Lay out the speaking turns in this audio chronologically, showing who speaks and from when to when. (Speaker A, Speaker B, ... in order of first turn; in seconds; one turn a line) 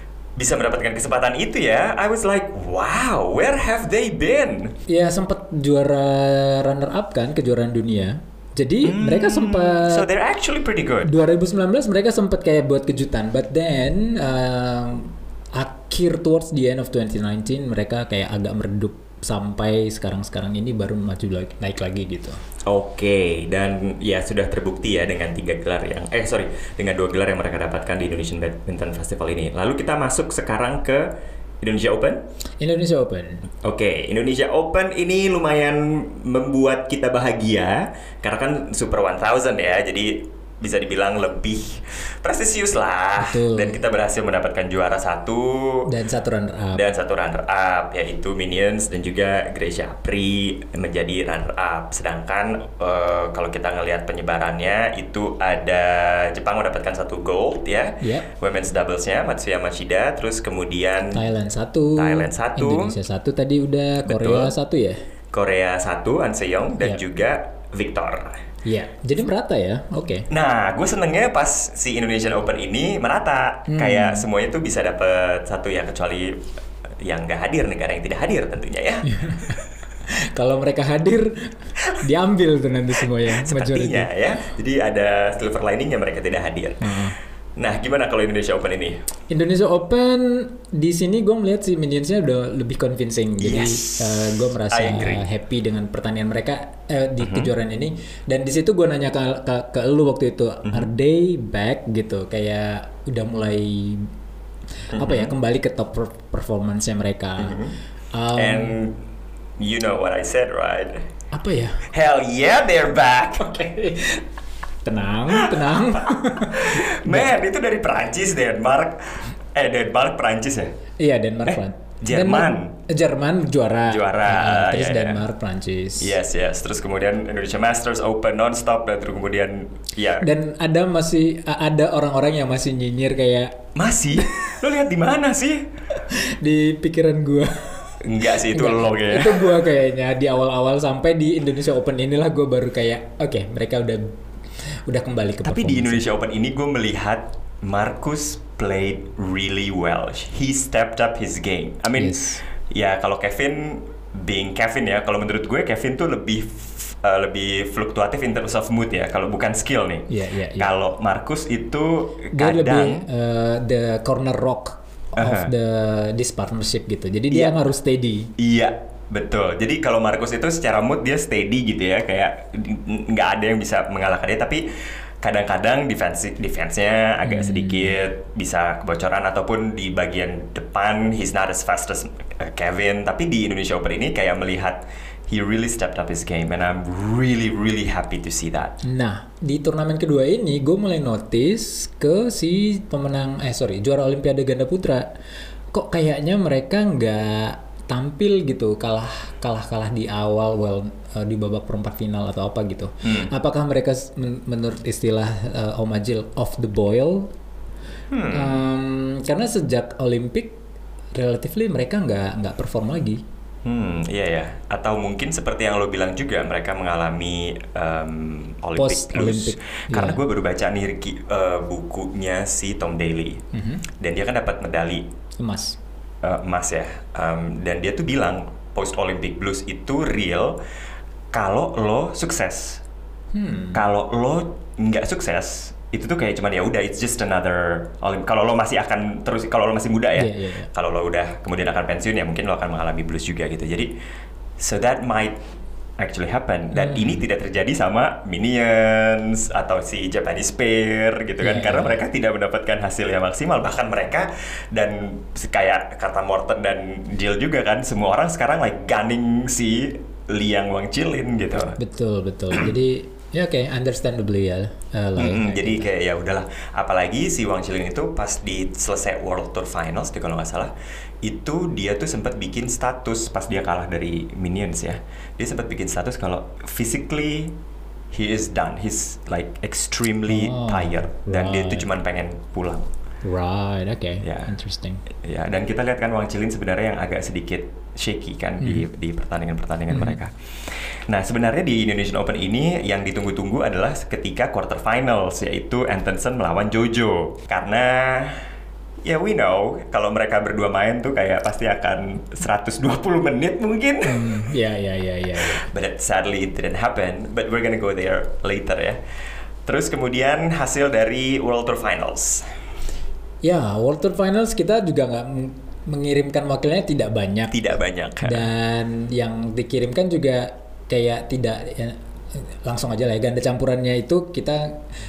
Speaker A: 0.4-4.8
Speaker B: 4.9-10.1
Speaker A: 8.8-11.1
Speaker B: 11.0-22.4
Speaker A: 22.7-31.1
Speaker A: 31.6-32.2
Speaker B: 32.6-33.4
Speaker A: 33.6-45.9
Speaker B: 43.2-43.8
Speaker B: 45.9-46.8
Speaker A: 46.7-61.2
Speaker B: 58.0-58.3
Speaker B: 61.1-65.0
Speaker A: 62.0-62.9
Speaker A: 64.0-64.5
Speaker A: 65.3-68.4
Speaker B: 68.7-70.3
Speaker A: 70.3-76.4
Speaker B: 73.7-74.3
Speaker A: 77.0-79.6
Speaker B: 79.1-79.6
Speaker B: 80.3-84.1
Speaker A: 83.3-86.9
Speaker B: 86.8-87.2
Speaker A: 87.6-89.0
Speaker B: 89.3-104.1
Speaker A: 93.4-95.2
Speaker A: 97.2-97.5
Speaker A: 100.6-100.9
Speaker A: 104.9-105.3
Speaker B: 104.9-107.6
Speaker A: 107.4-107.7
Speaker B: 108.1-108.8
Speaker A: 108.3-109.0
Speaker A: 109.6-111.0
Speaker B: 111.3-111.8
Speaker A: 111.9-113.5
Speaker B: 113.4-114.2
Speaker B: 114.8-117.3
Speaker A: 115.3-120.7
Speaker B: 121.0-126.2
Speaker A: 121.5-122.7
Speaker A: 123.9-125.2
Speaker A: 126.0-130.3
Speaker B: 130.2-133.6
Speaker A: 133.8-135.7
Speaker B: 136.0-144.1
Speaker A: 138.0-139.7
Speaker B: 144.9-146.1
Speaker A: 145.4-163.0
Speaker B: 152.0-152.4
Speaker B: 160.1-160.7
Speaker B: 162.3-168.3
Speaker A: 165.2-165.5
Speaker A: 168.4-174.6
Speaker A: 175.2-188.8
Speaker B: 177.2-178.0
Speaker B: 188.8-195.1
Speaker B: 195.7-207.3
Speaker A: 203.0-203.3
Speaker A: 208.1-208.6
Speaker B: 208.3-210.6
Speaker B: 211.2-213.2
Speaker A: 213.7-223.4
Speaker B: 218.8-220.2
Speaker B: 223.5-223.8
Speaker A: 224.0-225.1
Speaker B: 225.4-225.8
Speaker A: 226.2-230.6
Speaker A: 231.3-232.8
Speaker B: 233.3-233.8
Speaker A: 233.7-243.9
Speaker B: 240.2-240.7
Speaker A: 244.6-245.4
Speaker A: 246.0-261.8
Speaker B: 246.7-247.2
Speaker B: 251.4-252.0
Speaker B: 261.8-265.9
Speaker A: 265.2-270.7
Speaker A: 271.2-277.6
Speaker A: 278.1-282.9
Speaker B: 280.3-281.9
Speaker B: 283.2-285.0
Speaker A: 284.2-284.5
Speaker A: 285.2-298.4
Speaker B: 288.6-288.9
Speaker B: 289.9-290.2
Speaker A: 299.1-304.4
Speaker B: 304.1-305.6
Speaker A: 305.6-309.0
Speaker A: 309.7-312.4
Speaker B: 313.4-317.6
Speaker A: 317.5-318.5
Speaker B: 318.2-324.8